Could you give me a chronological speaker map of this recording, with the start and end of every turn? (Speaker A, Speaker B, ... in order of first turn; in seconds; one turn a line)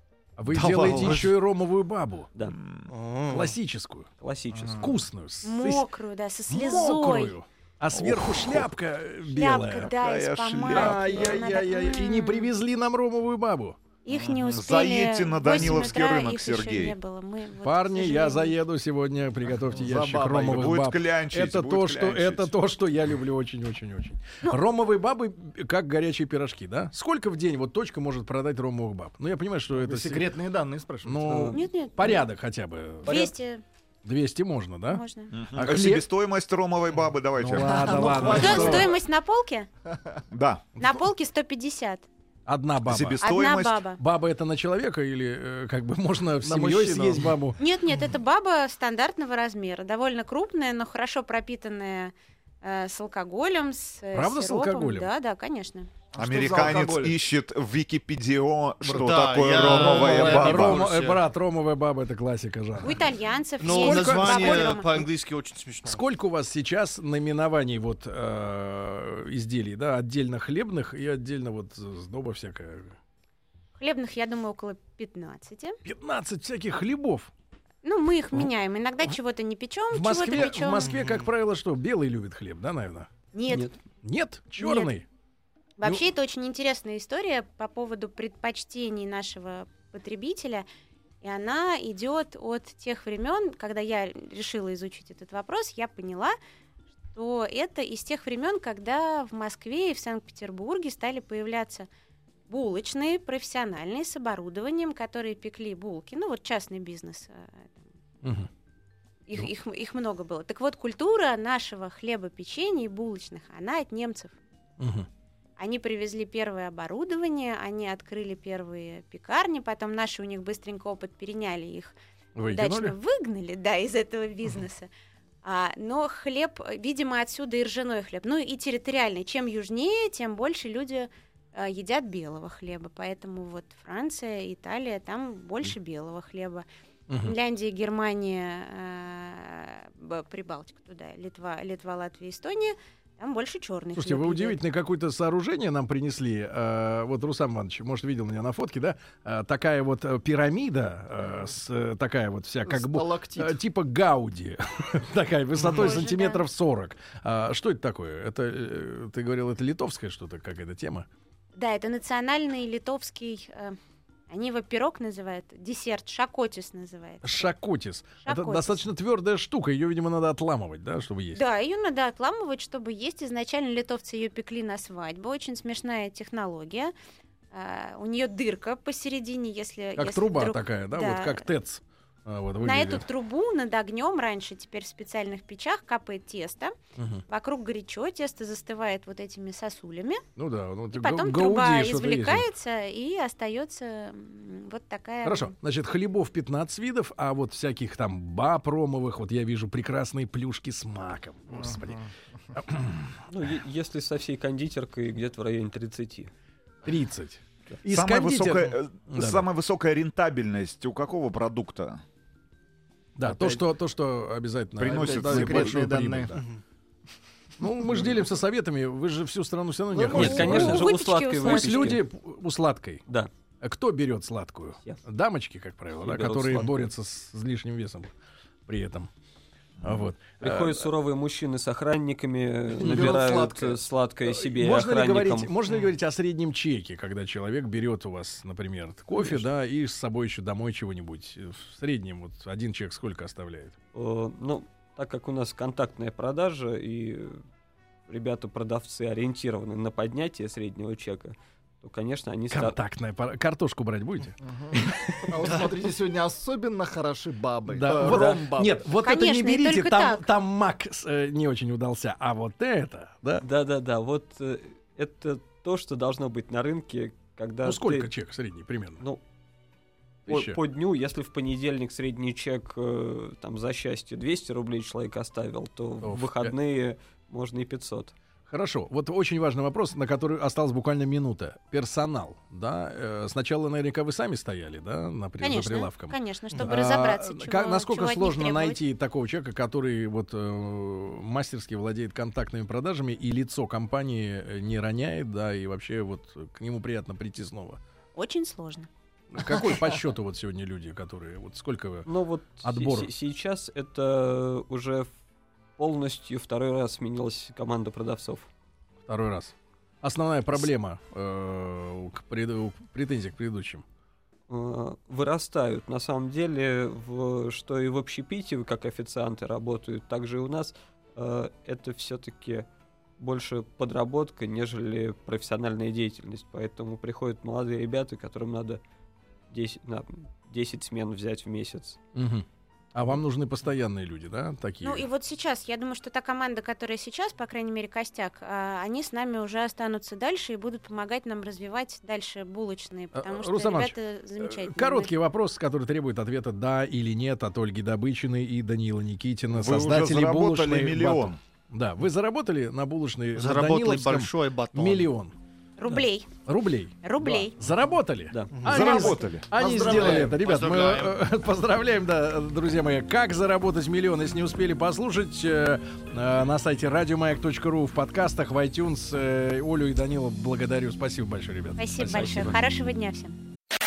Speaker A: 0.4-2.3
Speaker B: 0.5-1.4
Speaker C: 2.5-2.9
Speaker B: 2.9-3.5
Speaker A: 3.3-4.1
Speaker D: 4.2-5.0
Speaker E: 4.5-4.8
Speaker A: 4.8-5.9
Speaker F: 5.4-7.3
Speaker A: 6.5-9.9
Speaker C: 7.9-8.7
Speaker F: 9.3-12.5
Speaker C: 9.9-11.4
Speaker A: 10.7-13.8
Speaker F: 14.0-18.6
Speaker C: 14.1-17.0
Speaker A: 17.6-30.3
Speaker E: 19.7-20.7
Speaker C: 20.4-22.5
Speaker E: 29.7-31.6
Speaker A: 31.0-33.3
Speaker F: 31.5-32.2
Speaker F: 33.0-33.6
Speaker A: 34.0-35.0
Speaker F: 34.9-35.3
Speaker C: 35.3-38.7
Speaker A: 35.5-36.0
Speaker E: 37.4-39.0
Speaker A: 37.4-38.9
Speaker F: 38.3-39.7
Speaker C: 40.3-40.6
Speaker F: 40.8-42.1
Speaker A: 42.5-43.3
Speaker C: 42.9-43.8
Speaker F: 43.2-44.0
Speaker A: 44.0-47.6
Speaker E: 46.4-47.4
Speaker F: 47.6-55.9
Speaker A: 54.1-55.1
Speaker E: 56.1-57.2
Speaker C: 56.2-60.8
Speaker E: 58.9-60.6
Speaker B: 58.9-61.2
Speaker A: 60.2-63.0
Speaker F: 62.8-65.1
Speaker B: 63.6-66.0
Speaker A: 63.7-64.8
Speaker A: 65.8-73.0
Speaker F: 73.8-75.8
Speaker A: 75.8-77.3
Speaker F: 77.8-80.9
Speaker A: 79.9-83.1
Speaker B: 80.8-81.3
Speaker F: 83.3-83.7
Speaker A: 84.0-85.0
Speaker F: 84.6-84.9
Speaker F: 85.8-90.7
Speaker F: 91.2-96.3
Speaker F: 97.1-101.9
Speaker F: 102.5-107.9
Speaker A: 108.2-108.5
Speaker F: 109.3-114.4
Speaker A: 114.8-115.1
Speaker F: 115.6-122.0
Speaker A: 122.3-123.0
Speaker F: 122.5-124.9
Speaker F: 125.4-136.7
Speaker A: 137.1-137.4
Speaker F: 137.2-144.6
Speaker A: 144.0-161.1
Speaker E: 152.7-153.6
Speaker B: 155.6-156.0
Speaker F: 155.7-156.4
Speaker F: 161.6-163.8
Speaker F: 164.3-167.5
Speaker A: 167.2-171.4
Speaker F: 168.2-168.8
Speaker F: 171.3-176.9
Speaker F: 177.5-181.5
Speaker A: 180.0-183.1
Speaker F: 182.6-186.7
Speaker A: 187.0-187.2
Speaker F: 187.3-190.2
Speaker A: 190.4-192.5
Speaker F: 190.9-195.6
Speaker A: 195.2-203.2
Speaker E: 201.5-202.0
Speaker D: 203.3-206.3
Speaker A: 206.8-209.4
Speaker C: 207.9-212.0
Speaker A: 213.2-216.5
Speaker D: 213.2-213.6
Speaker C: 214.8-215.9
Speaker E: 214.8-216.3
Speaker A: 217.6-223.0
Speaker F: 219.9-222.0
Speaker D: 220.0-222.0
Speaker A: 223.6-228.1
Speaker D: 226.0-226.7
Speaker A: 228.7-229.1
Speaker C: 229.8-230.1
Speaker A: 229.8-230.9
Speaker D: 230.4-235.5
Speaker A: 232.8-233.4
Speaker E: 232.8-233.8
Speaker A: 234.3-243.8
Speaker D: 239.2-239.4
Speaker D: 243.9-247.4
Speaker D: 248.1-252.8
Speaker A: 252.5-255.4
Speaker E: 254.4-258.8
Speaker A: 257.7-263.4
Speaker D: 257.9-258.4
Speaker F: 259.0-260.3
Speaker D: 263.4-268.1
Speaker A: 267.6-269.0
Speaker A: 270.3-270.6
Speaker D: 270.3-278.1
Speaker A: 276.0-276.6
Speaker A: 278.5-297.8
Speaker F: 285.4-288.8
Speaker F: 298.1-298.9
Speaker A: 299.3-302.1
Speaker D: 302.1-305.1
Speaker A: 302.6-303.1
Speaker D: 305.8-308.5
Speaker A: 309.1-313.8
Speaker D: 314.5-322.7
Speaker D: 323.2-328.8
Speaker D: 329.5-332.0
Speaker A: 332.1-335.1
Speaker F: 334.8-345.1
Speaker A: 343.1-355.4
Speaker C: 349.5-351.4
Speaker B: 353.4-355.1
Speaker F: 355.8-356.3
Speaker A: 356.4-372.6
Speaker F: 357.0-357.6
Speaker D: 358.3-358.7
Speaker B: 358.5-359.0
Speaker C: 358.7-359.5
Speaker E: 358.9-360.4
Speaker B: 360.2-361.2
Speaker F: 371.8-373.4